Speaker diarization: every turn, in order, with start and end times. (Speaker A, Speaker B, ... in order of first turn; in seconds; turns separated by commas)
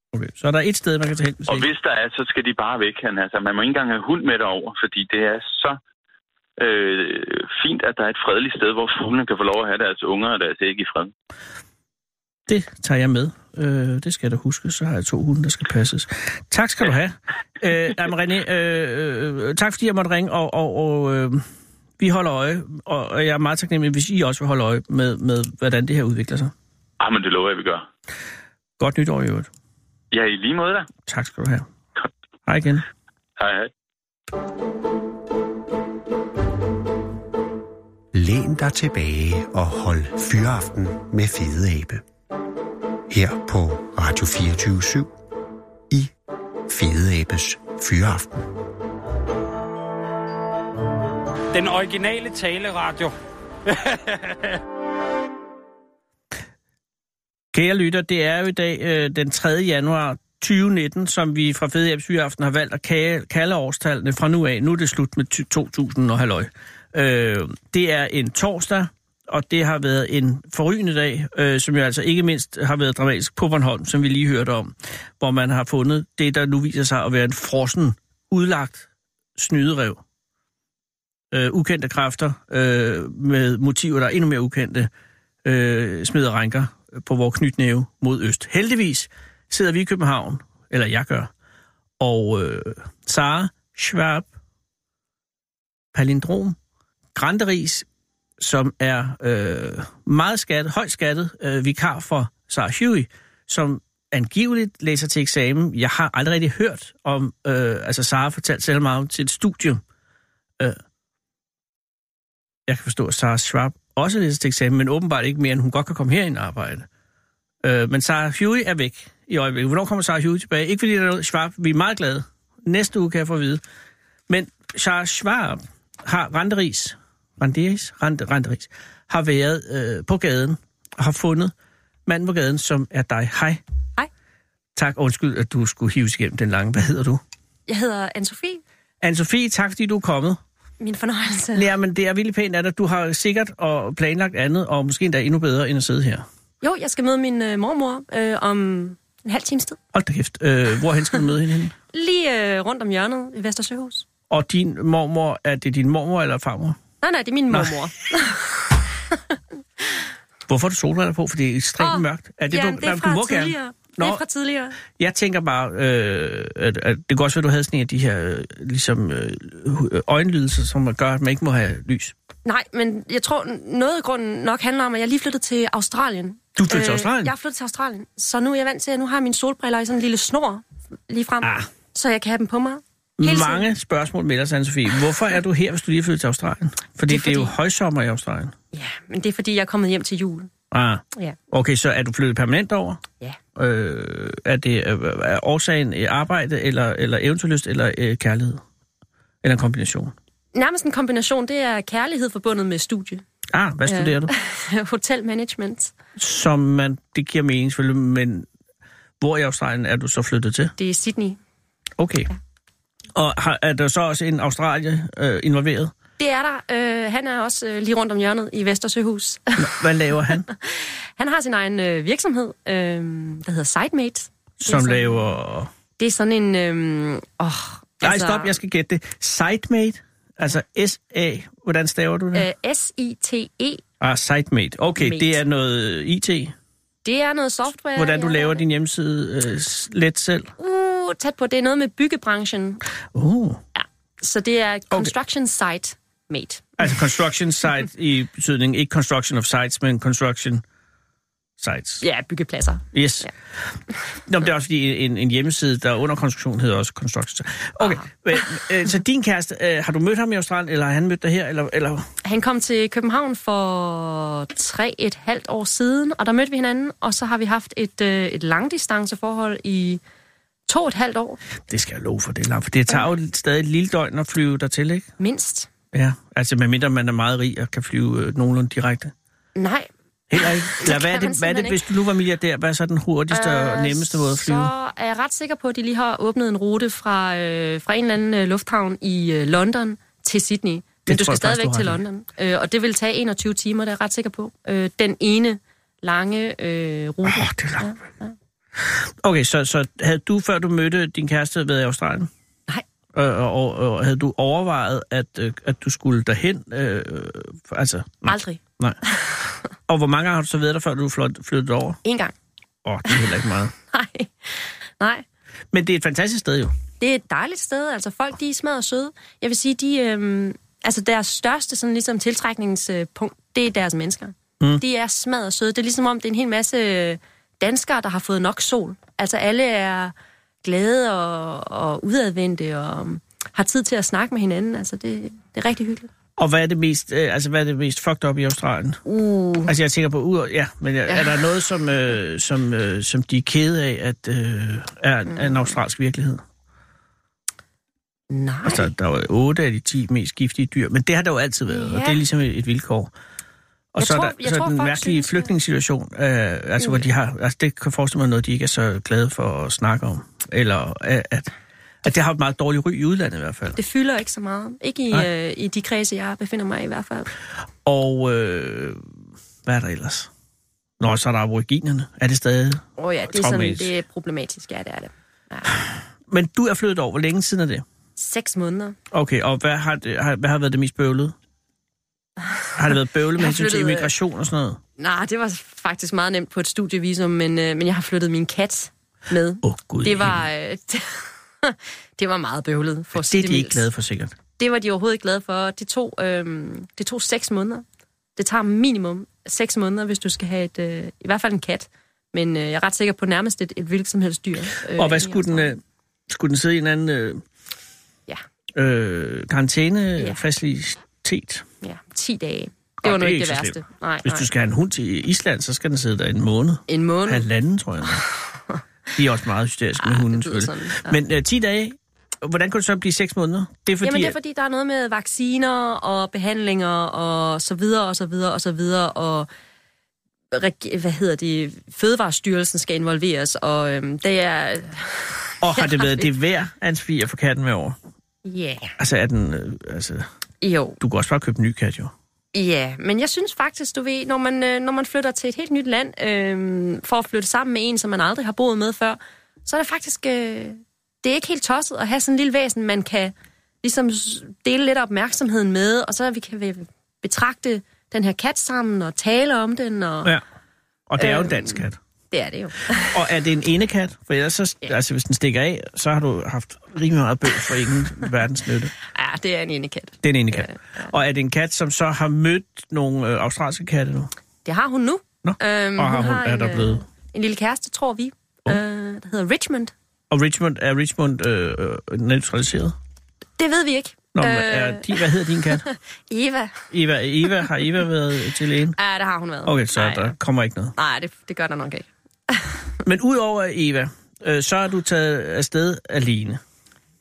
Speaker A: 0.1-1.7, Speaker B: 1.5-5.8, Speaker B: 6.6-11.1, Speaker A: 12.5-21.4, Speaker A: 22.0-26.5, Speaker B: 27.0-27.9, Speaker A: 28.8-29.5, Speaker B: 30.1-30.9, Speaker A: 31.1-31.6, Speaker A: 32.5-32.8, Speaker B: 33.4-33.7, Speaker C: 38.1-42.0, Speaker C: 43.1-45.1, Speaker C: 46.7-48.5, Speaker D: 51.5-53.1, Speaker D: 53.7-54.6, Speaker A: 57.5-80.0, Speaker A: 81.3-84.9, Speaker A: 85.4-91.3, Speaker A: 92.0-94.3, Speaker A: 95.9-96.6, Speaker A: 97.1-97.8, Speaker A: 98.4-109.8, Speaker A: 112.7-116.9, Speaker A: 117.6-123.6, Speaker A: 124.3-131.5, Speaker A: 132.1-133.6, Speaker A: 134.8-137.2, Speaker E: 137.7-138.6, Speaker A: 139.0-140.4, Speaker E: 140.8-141.7, Speaker A: 141.5-146.2, Speaker E: 146.6-149.8, Speaker A: 149.9-151.7, Speaker E: 151.9-154.0, Speaker A: 154.3-156.8, Speaker E: 157.0-159.1, Speaker E: 159.8-160.0, Speaker A: 160.5-164.2, Speaker E: 161.8-164.8, Speaker A: 164.9-172.1, Speaker E: 172.4-183.7, Speaker A: 176.6-177.3, Speaker A: 181.4-181.7, Speaker A: 183.2-188.5, Speaker E: 187.1-187.5, Speaker E: 188.7-190.5, Speaker A: 190.7-193.0, Speaker A: 193.5-198.6, Speaker A: 199.4-200.1, Speaker E: 200.5-203.2, Speaker A: 203.5-204.3, Speaker E: 203.8-205.9, Speaker A: 206.2-208.5, Speaker A: 209.2-210.7, Speaker E: 210.8-211.4, Speaker A: 212.0-212.3, Speaker A: 213.1-215.9, Speaker E: 216.2-219.7, Speaker A: 219.6-220.5, Speaker E: 220.5-225.3, Speaker A: 224.6-225.7, Speaker E: 226.0-228.5, Speaker A: 228.0-232.5, Speaker E: 232.3-233.8, Speaker A: 234.0-236.5, Speaker E: 235.0-235.4, Speaker E: 237.0-238.6, Speaker A: 237.9-240.5, Speaker E: 240.6-242.8, Speaker A: 243.1-243.6, Speaker E: 243.7-246.9, Speaker A: 246.8-250.6, Speaker A: 251.6-252.0, Speaker E: 252.0-253.3, Speaker A: 252.9-253.3, Speaker A: 254.2-262.1, Speaker E: 257.8-258.4, Speaker E: 262.2-270.0, Speaker E: 270.7-271.4, Speaker A: 271.7-275.1, Speaker E: 275.2-275.7, Speaker A: 275.9-279.1, Speaker E: 279.6-281.8, Speaker A: 280.3-284.7, Speaker E: 283.3-298.3, Speaker A: 291.1-292.0, Speaker A: 297.2-297.9, Speaker A: 298.8-302.3, Speaker A: 303.1-309.0, Speaker E: 308.2-309.5, Speaker A: 309.9-312.0, Speaker E: 312.0-312.3, Speaker A: 312.8-313.7, Speaker E: 313.9-315.2, Speaker A: 315.7-316.7, Speaker E: 317.0-336.1, Speaker A: 336.4-339.0, Speaker E: 339.0-339.7, Speaker A: 339.6-346.4, Speaker E: 341.1-341.4, Speaker E: 348.3-348.9, Speaker A: 348.6-353.1, Speaker E: 351.7-352.2, Speaker A: 353.9-361.5, Speaker E: 354.0-355.5, Speaker A: 362.0-363.8, Speaker E: 363.8-367.3, Speaker A: 367.8-369.0, Speaker A: 369.6-370.3, Speaker A: 371.0-373.9, Speaker E: 373.0-375.7, Speaker A: 376.3-377.8, Speaker E: 378.2-378.9, Speaker A: 379.1-381.3, Speaker A: 382.8-384.8, Speaker E: 383.4-384.1, Speaker E: 385.0-393.9, Speaker A: 389.6-390.4, Speaker A: 393.1-394.3, Speaker E: 394.6-397.8, Speaker E: 398.4-405.7, Speaker A: 404.9-407.4, Speaker A: 408.7-411.6, Speaker E: 410.2-410.4, Speaker E: 411.8-414.5, Speaker A: 413.0-418.2, Speaker E: 416.9-417.4, Speaker E: 418.4-418.8, Speaker A: 419.2-424.4, Speaker E: 420.0-421.2, Speaker E: 424.0-429.5, Speaker E: 430.5-436.3, Speaker A: 435.6-437.9, Speaker E: 438.4-438.9, Speaker A: 439.0-440.2, Speaker E: 440.6-441.0, Speaker A: 441.0-442.1, Speaker E: 442.5-460.3, Speaker A: 461.1-462.0, Speaker E: 461.2-463.2, Speaker A: 463.0-468.9, Speaker E: 469.1-471.1, Speaker A: 470.2-474.3, Speaker E: 474.6-479.9, Speaker A: 475.4-477.0, Speaker A: 480.3-482.9, Speaker E: 483.6-486.9, Speaker A: 484.3-485.9, Speaker A: 486.9-489.0, Speaker E: 488.9-490.3, Speaker A: 489.6-490.9, Speaker E: 490.9-492.8, Speaker A: 493.0-496.6